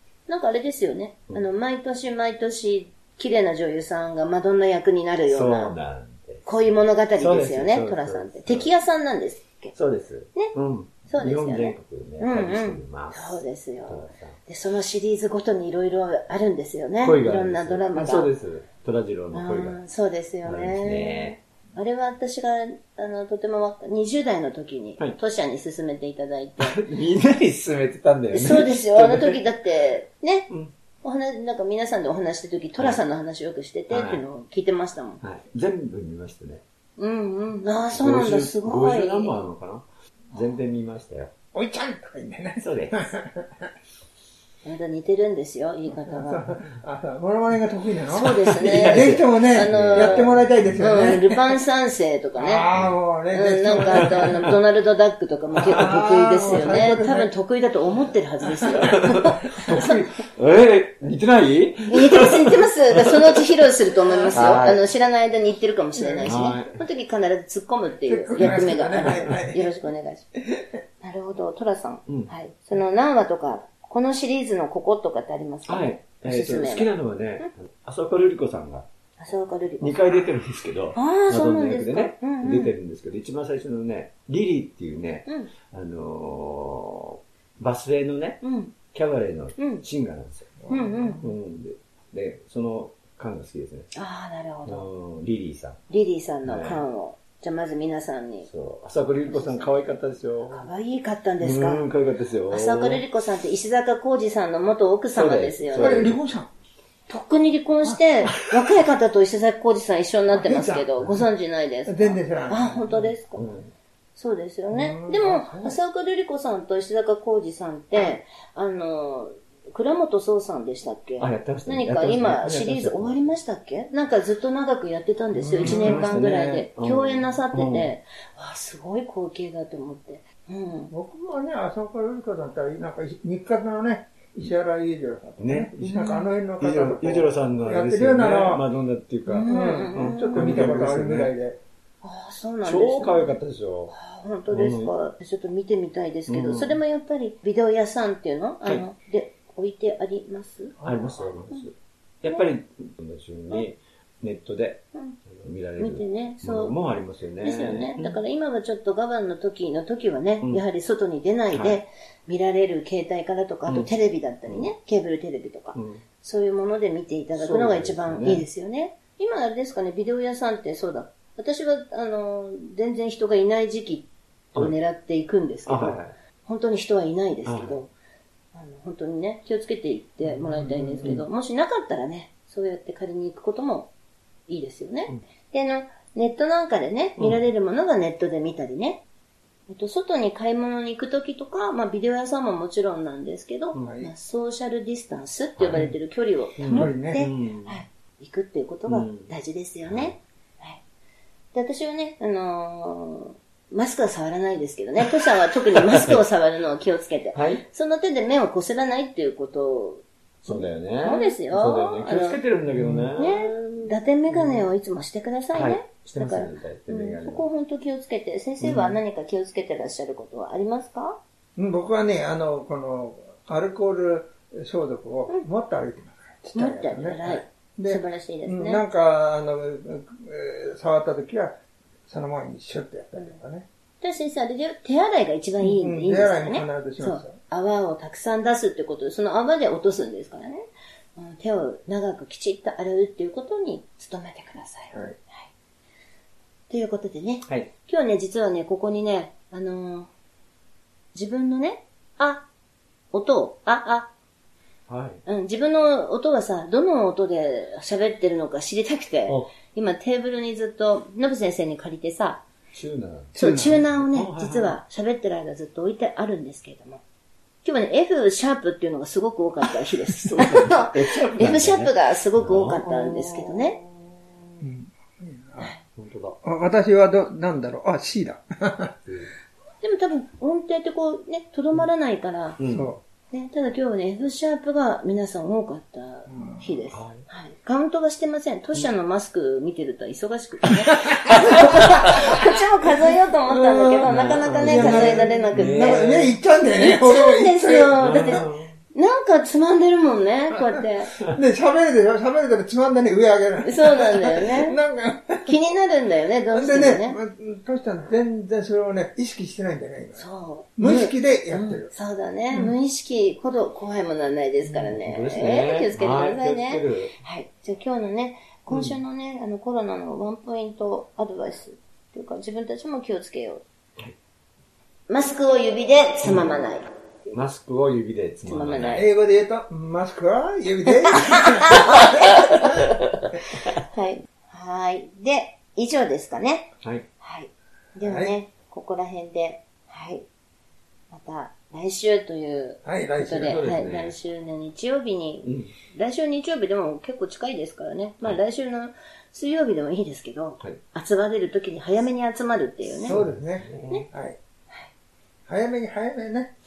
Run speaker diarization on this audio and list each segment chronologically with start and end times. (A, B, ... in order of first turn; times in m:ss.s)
0:00.3-0:05.7 A
0:05.3-0:06.4 B
0:06.4-0:09.7 A
0:07.2-0:08.7 B
0:09.7-0:14.4 B
0:11.1-0:18.3 A
0:17.0-0:19.8 B
0:19.3-0:26.8 A
0:20.4-0:21.4 B
0:26.6-0:29.4 B
0:28.3-0:30.5 A
0:31.0-0:35.2 A
0:33.9-0:34.2 B
0:35.2-0:36.6 B
0:37.0-0:39.4 A
0:37.9-0:41.3 B
0:41.5-0:43.7 C
0:42.6-0:43.1 B
0:44.6-0:46.5 A
0:46.0-0:51.6 C
0:48.1-0:52.7 A
0:48.2-0:50.8 B
0:52.4-0:54.5 C
0:53.3-1:00.0 A
0:53.9-0:54.5 B
0:55.6-0:57.3 C
0:58.8-1:03.4 B
1:01.9-1:10.3 A
1:04.3-1:04.8 B
1:06.0-1:06.4 C
1:06.2-1:06.8 B
1:08.0-1:09.7 C
1:08.4-1:09.4 B
1:10.4-1:10.7 C
1:11.0-1:17.5 A
1:15.6-1:18.9 B
1:19.2-1:20.0 A
1:19.8-1:28.4 B
1:20.9-1:22.7 A
1:25.2-1:25.5 A
1:28.4-1:28.7 A
1:28.9-1:33.9 B
1:29.6-1:29.8 A
1:30.6-1:31.1 C
1:30.7-1:31.2 A
1:33.9-1:34.9 A
1:34.6-1:35.8 B
1:35.9-1:38.5 A
1:36.4-1:36.8 B
1:38.5-1:40.7 B
1:39.2-1:39.8 A
1:40.5-1:41.8 A
1:41.4-1:43.0 B
1:42.5-1:46.1 A
1:45.1-1:46.2 B
1:45.8-1:46.5 C
1:47.1-1:53.4 A
1:48.3-1:48.6 B
1:50.3-1:51.2 C
1:51.9-1:53.0 C
1:53.4-1:53.7 B
1:54.2-2:10.9 A
1:54.7-1:55.8 C
2:01.2-2:03.3 B
2:05.4-2:07.9 B
2:05.6-2:06.1 C
2:10.9-2:18.6 C
2:15.4-2:21.3 B
2:15.8-2:16.3 A
2:19.3-2:20.7 A
2:19.4-2:21.6 C
2:22.0-2:23.4 A
2:22.6-2:23.9 B
2:23.9-2:30.8 A
2:24.5-2:24.9 B
2:26.3-2:26.8 B
2:30.8-2:31.3 C
2:30.8-2:38.2 B
2:35.8-2:36.8 A
2:37.4-2:57.9 A
2:41.5-2:41.8 B
2:45.8-2:46.0 B
2:47.4-2:48.4 B
2:55.6-2:56.1 B
2:57.4-2:57.8 B
2:58.5-3:03.9 A
3:00.7-3:01.1 C
3:04.5-3:09.0 A
3:09.7-3:20.8 A
3:13.8-3:14.1 C
3:15.6-3:15.9 B
3:16.6-3:17.8 B
3:16.6-3:17.2 C
3:18.9-3:19.3 B
3:19.8-3:20.1 B
3:21.5-3:32.4 A
3:25.8-3:26.2 B
3:27.4-3:27.6 B
3:30.4-3:34.7 B
3:32.8-3:33.1 C
3:33.1-3:41.2 A
3:35.5-3:37.5 B
3:38.6-3:39.0 B
3:41.6-3:53.6 C
3:46.5-3:48.8 A
3:54.0-4:05.5 A
3:55.6-3:57.4 C
4:06.7-4:10.1 A
4:11.1-4:12.5 A
4:13.1-4:14.1 A
4:14.9-4:15.2 B
4:15.2-4:22.4 A
4:22.7-4:24.8 B
4:23.4-4:27.0 A
4:23.4-4:23.8 C
4:27.6-4:33.8 A
4:30.1-4:33.2 B
4:34.6-4:35.7 C
4:36.0-4:36.4 B
4:36.4-4:38.9 C
4:39.1-4:39.3 B
4:39.8-4:42.6 A
4:42.6-4:42.9 B
4:42.6-4:43.0 C
4:43.3-5:01.1 A
4:46.3-4:46.6 C
4:46.9-4:47.2 B
4:53.5-4:58.4 C
4:54.1-4:56.3 B
4:58.0-4:58.8 B
5:00.5-5:05.5 C
5:03.6-5:04.8 A
5:05.4-5:07.2 A
5:06.5-5:10.2 C
5:10.2-5:23.6 A
5:10.8-5:11.9 C
5:14.7-5:17.1 B
5:18.7-5:19.0 B
5:25.1-5:26.9 A
5:27.3-5:29.0 B
5:28.4-5:29.1 A
5:28.9-5:32.9 C
5:31.1-5:40.2 A
5:38.0-5:38.3 C
5:41.1-5:53.2 A
5:42.8-5:43.6 C
5:43.4-5:44.1 B
5:45.4-5:45.7 B
5:53.0-5:54.4 C
5:53.1-5:54.0 B
5:55.5-5:56.5 C